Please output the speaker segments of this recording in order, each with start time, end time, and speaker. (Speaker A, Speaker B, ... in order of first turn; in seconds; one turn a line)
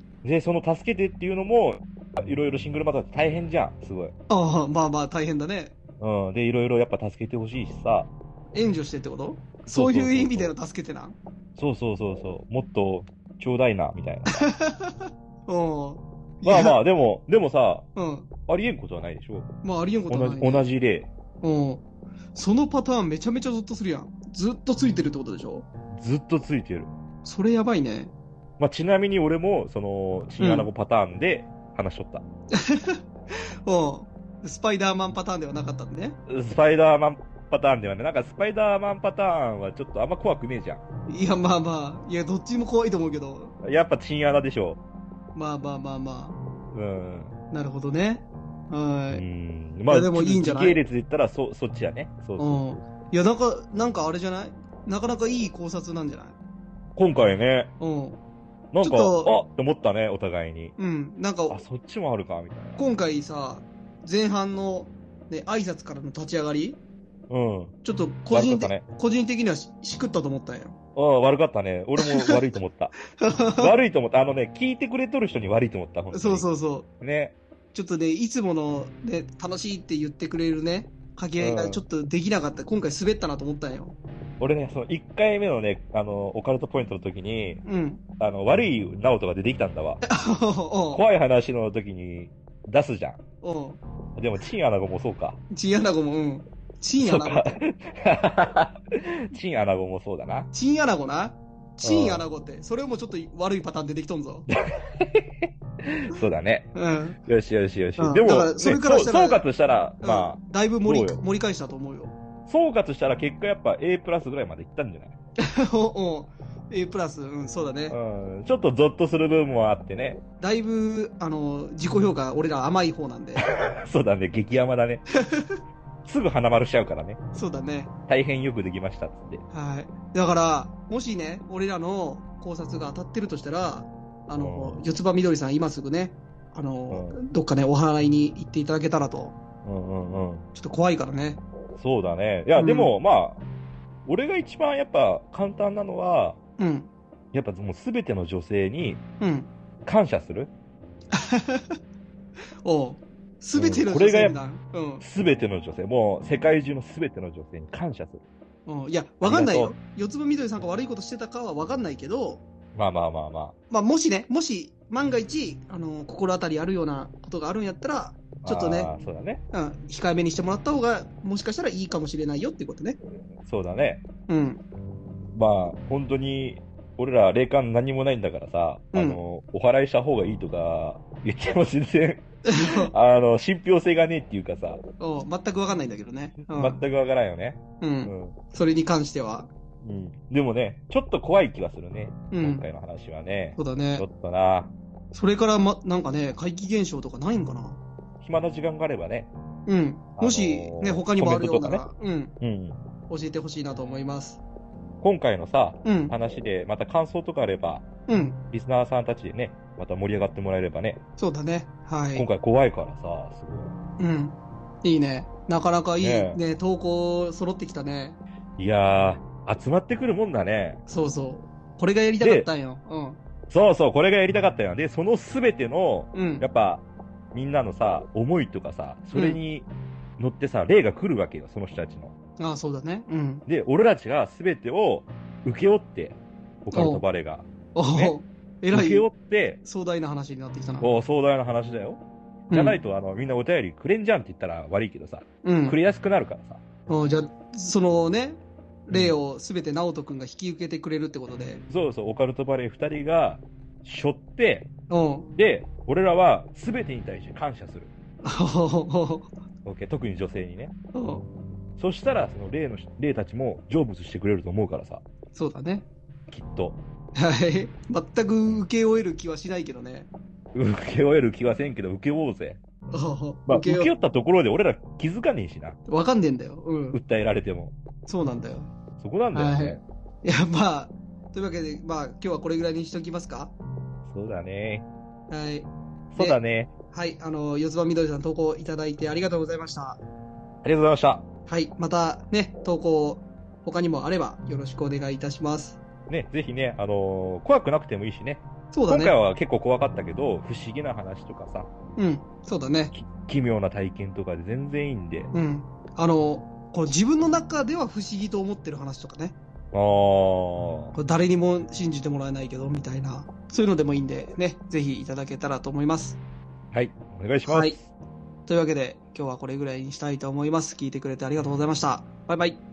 Speaker A: 0.2-4.1
Speaker B: 4.3-5.7
Speaker A: 6.0-8.1
Speaker B: 8.5-11.2
Speaker A: 9.7-10.5
Speaker A: 11.6-14.4
Speaker B: 14.3-16.8
Speaker A: 16.4-17.9
Speaker B: 17.9-18.3
Speaker A: 18.5-19.5
Speaker B: 19.6-20.7
Speaker A: 20.1-21.1
Speaker B: 21.4-21.8
Speaker B: 22.4-25.7
Speaker A: 25.9-26.9
Speaker B: 27.2-28.1
Speaker A: 28.6-32.2
Speaker B: 30.4-30.7
Speaker B: 32.6-33.0
Speaker B: 33.6-36.1
Speaker A: 36.3-40.8
Speaker B: 41.1-43.5
Speaker A: 43.6-44.8
Speaker B: 45.4-46.4
Speaker A: 46.7-47.3
Speaker B: 47.5-49.2
Speaker A: 49.1-52.6
Speaker B: 49.9-50.8
Speaker B: 52.4-56.4
Speaker A: 57.0-57.7
Speaker B: 57.8-58.2
Speaker A: 58.7-60.7
Speaker B: 58.8-59.4
Speaker B: 60.8-61.6
Speaker A: 61.5-62.8
Speaker B: 62.8-66.8
Speaker A: 67.3-67.8
Speaker B: 67.8-70.8
Speaker A: 68.3-68.8
Speaker A: 70.9-72.9
Speaker B: 72.0-72.4
Speaker B: 73.2-73.7
Speaker A: 73.6-76.5
Speaker B: 76.1-76.9
Speaker A: 77.0-77.3
Speaker B: 77.7-84.0
Speaker A: 81.4-81.8
Speaker A: 84.4-87.6
Speaker B: 87.6-88.0
Speaker A: 88.2-90.0
Speaker B: 90.0-91.0
Speaker A: 90.9-93.2
Speaker B: 93.4-93.8
Speaker A: 94.2-95.4
Speaker B: 95.5-97.6
Speaker A: 97.0-100.5
Speaker B: 100.5-104.5
Speaker A: 101.8-102.3
Speaker A: 104.5-106.7
Speaker B: 106.7-107.2
Speaker A: 107.3-111.2
Speaker B: 108.0-109.5
Speaker B: 110.0-112.2
Speaker A: 112.5-115.1
Speaker B: 115.4-118.0
Speaker A: 117.9-120.2
Speaker B: 120.4-123.5
Speaker A: 123.7-125.0
Speaker B: 125.3-125.6
Speaker A: 126.0-127.2
Speaker B: 127.3-127.9
Speaker A: 128.1-129.4
Speaker B: 129.5-139.4
Speaker A: 134.3-134.8
Speaker A: 136.9-137.2
Speaker A: 139.6-140.4
Speaker B: 140.6-141.4
Speaker A: 141.8-143.4
Speaker B: 142.6-142.9
Speaker A: 144.1-146.4
Speaker B: 146.6-146.9
Speaker A: 147.3-149.0
Speaker B: 149.2-149.5
Speaker A: 149.8-150.5
Speaker B: 151.1-151.8
Speaker B: 152.6-155.0
Speaker A: 153.6-154.4
Speaker A: 155.0-158.2
Speaker B: 158.7-162.4
Speaker A: 159.2-159.8
Speaker A: 162.7-163.6
Speaker B: 163.7-168.9
Speaker A: 168.4-169.4
Speaker B: 169.5-173.0
Speaker A: 173.4-174.0
Speaker B: 174.3-174.6
Speaker A: 175.3-184.8
Speaker B: 178.9-179.2
Speaker B: 182.5-182.9
Speaker B: 185.0-186.8
Speaker A: 186.5-188.4
Speaker B: 187.8-189.5
Speaker A: 189.8-194.7
Speaker B: 192.3-192.6
Speaker B: 193.6-194.1
Speaker B: 195.1-197.8
Speaker A: 198.2-199.3
Speaker B: 199.7-202.3
Speaker A: 200.2-201.8
Speaker A: 202.4-202.8
Speaker B: 203.1-204.4
Speaker A: 205.0-207.8
Speaker B: 205.8-206.1
Speaker B: 208.1-208.4
Speaker A: 208.5-211.0
Speaker B: 211.2-212.3
Speaker A: 212.1-213.7
Speaker B: 214.0-218.2
Speaker A: 216.0-216.4
Speaker A: 218.6-220.8
Speaker B: 220.9-223.2
Speaker A: 222.2-222.5
Speaker A: 223.5-232.1
Speaker B: 226.1-226.4
Speaker B: 229.1-229.4
Speaker B: 232.4-233.4
Speaker A: 233.4-238.2
Speaker B: 236.7-237.0
Speaker B: 237.7-239.1
Speaker A: 238.7-239.6
Speaker B: 239.6-240.9
Speaker A: 240.8-242.0
Speaker B: 242.5-242.8
Speaker A: 242.5-246.6
Speaker B: 245.4-245.8
Speaker B: 246.9-251.6
Speaker A: 248.9-249.2
Speaker A: 251.7-254.7
Speaker B: 254.9-255.3
Speaker A: 255.4-257.9
Speaker B: 258.2-259.3
Speaker A: 259.6-260.7
Speaker B: 260.9-261.3
Speaker A: 261.8-265.0
Speaker B: 265.3-265.9
Speaker A: 266.3-266.8
Speaker B: 267.1-270.1
Speaker A: 270.5-272.6
Speaker B: 272.9-273.9
Speaker A: 273.4-275.8
Speaker B: 275.9-277.0
Speaker A: 276.9-277.7
Speaker B: 278.1-278.7
Speaker A: 279.0-279.8
Speaker B: 279.3-283.5
Speaker A: 284.1-284.9
Speaker B: 285.3-286.4
Speaker A: 286.1-286.7
Speaker B: 286.9-290.0
Speaker A: 290.6-291.2
Speaker B: 291.5-295.8
Speaker A: 296.1-301.7
Speaker B: 298.7-299.1
Speaker B: 302.0-302.9
Speaker A: 302.9-305.3
Speaker B: 305.3-309.4
Speaker A: 309.7-310.9
Speaker B: 310.9-316.2
Speaker A: 316.7-317.9
Speaker B: 317.4-317.8
Speaker B: 318.5-322.6